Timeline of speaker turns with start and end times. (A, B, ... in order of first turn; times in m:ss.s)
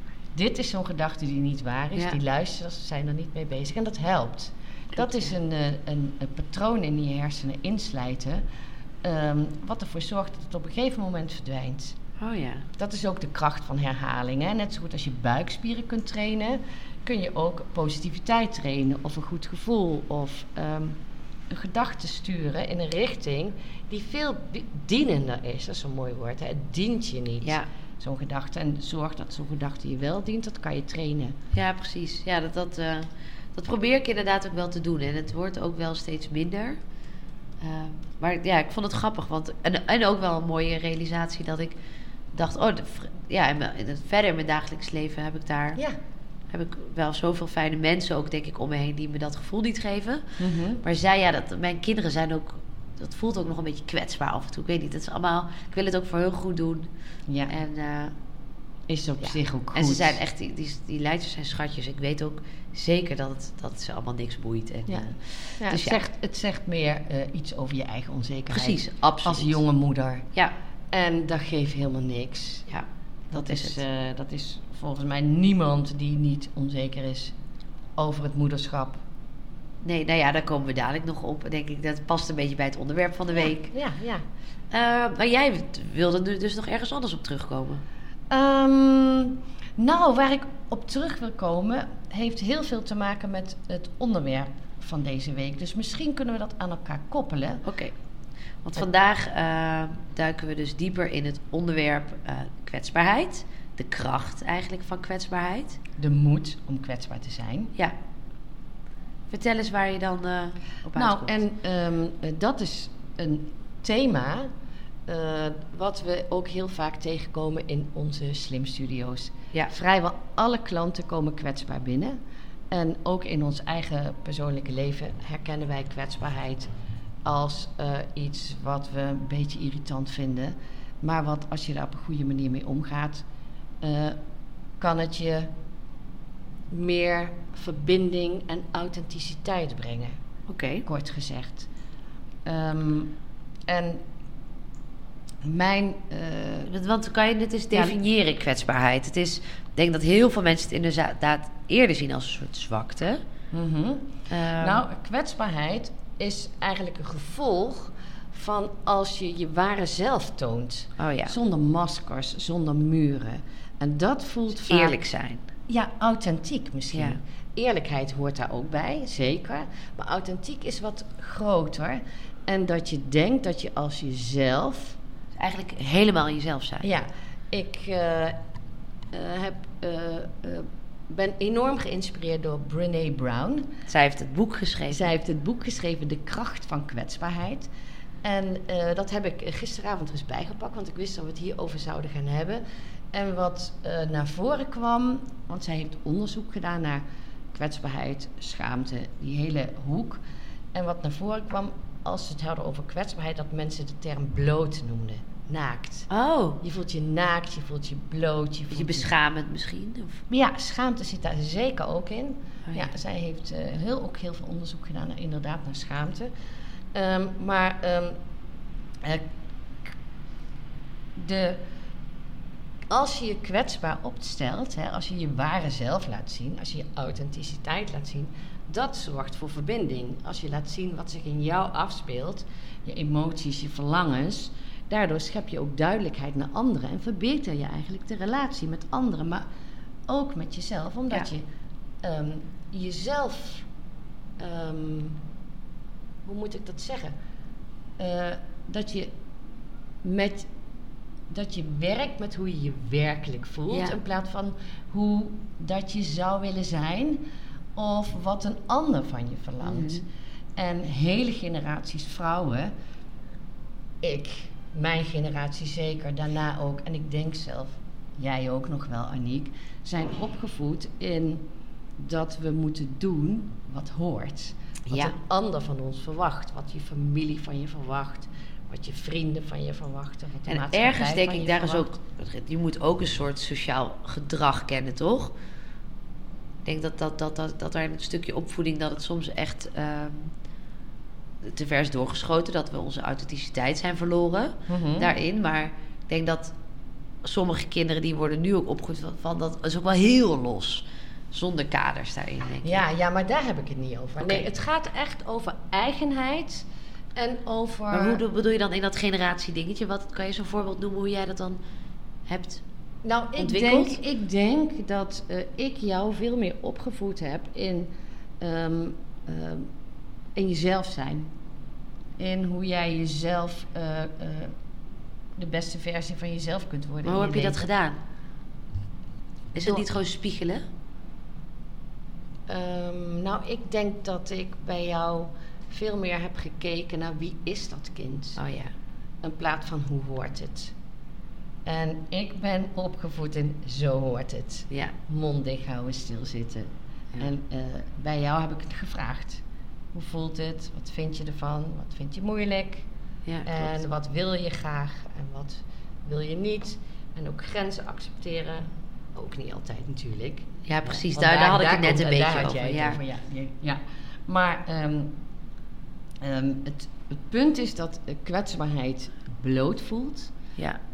0:00.3-0:08.4 A
0:05.0-0:05.3 B
0:09.0-0:12.0 A
0:12.2-0:12.7 B
0:12.8-0:21.0 A
0:21.5-0:31.3 A
0:27.4-0:27.7 B
0:31.5-0:36.8 B
0:37.6-0:41.8 B
0:42.3-0:45.8 B
0:46.5-0:50.2 B
0:50.4-0:50.8 A
0:50.8-0:56.9 B
0:57.3-0:57.5 A
0:57.5-0:58.1 B
0:58.9-1:00.2 A
0:59.7-1:06.0 B
1:04.9-1:10.3 A
1:08.5-1:09.6 B
1:10.9-1:12.6 A
1:12.7-1:13.8 B
1:13.3-1:17.3 A
1:18.0-1:19.0 A
1:19.8-1:23.7 B
1:23.7-1:24.2 A
1:24.7-1:27.8 B
1:28.3-1:37.6 A
1:37.6-1:37.9 B
1:38.6-1:45.8 B
1:46.0-1:47.7 A
1:49.3-1:51.4 B
1:50.9-1:54.5 A
1:55.0-2:02.2 A
2:02.7-2:06.7 A
2:07.2-2:13.2 A
2:13.8-2:14.2 A
2:14.8-2:15.5 A
2:16.7-2:20.1 A
2:20.5-2:20.8 B
2:20.8-2:21.7 A
2:22.4-2:23.1 A
2:23.7-2:24.0 A
2:25.4-2:26.7 A
2:26.6-2:33.2 B
2:33.5-2:45.0 A
2:34.3-2:34.8 B
2:41.0-2:41.4 B
2:44.6-2:45.4 B
2:45.7-2:55.0 A
2:46.9-2:47.2 B
2:55.4-2:56.8 B
2:56.8-2:58.4 A
2:59.1-3:03.7 A
3:03.9-3:05.1 B
3:04.9-3:07.7 A
3:08.2-3:12.6 A
3:13.1-3:20.2 A
3:20.7-3:26.1 A
3:26.1-3:26.6 B
3:26.6-3:29.1 A
3:28.7-3:30.2 B
3:30.3-3:36.3 A
3:36.9-3:38.2 A
3:39.0-3:39.3 A
3:41.1-3:41.6 A
3:42.9-3:59.4 A
4:00.1-4:01.4 A
4:02.0-4:03.6 A
4:04.4-4:05.2 A
4:06.2-4:07.1 A
4:08.0-4:09.1 A
4:10.0-4:10.5 A
4:11.3-4:20.0 A
4:13.7-4:14.0 B
4:19.6-4:20.0 B
4:20.6-4:22.7 A
4:24.0-4:31.4 A
4:32.0-4:41.9 A
4:34.9-4:35.1 B
4:40.5-4:45.3 B
4:46.6-4:50.3 B
4:51.4-4:56.5 B
4:54.7-4:55.1 A
4:57.2-5:02.8 B
5:02.6-5:08.2 A
5:04.2-5:04.4 B
5:07.9-5:11.6 B
5:12.3-5:12.6 B
5:13.0-5:17.9 A
5:13.4-5:14.0 B
5:18.4-5:19.7 A
5:20.3-5:21.3 A
5:22.2-5:24.5 A
5:25.4-5:27.6 A
5:27.0-5:28.0 B
5:29.5-5:30.6 B
5:29.6-5:29.8 A
5:32.5-5:38.4 A
5:38.4-5:38.7 B
5:39.2-5:40.7 A
5:41.6-5:52.8 A
5:44.7-5:44.9 B
5:53.2-5:53.8 B
5:53.4-6:05.2 A
6:00.6-6:03.0 B
6:06.2-6:10.3 A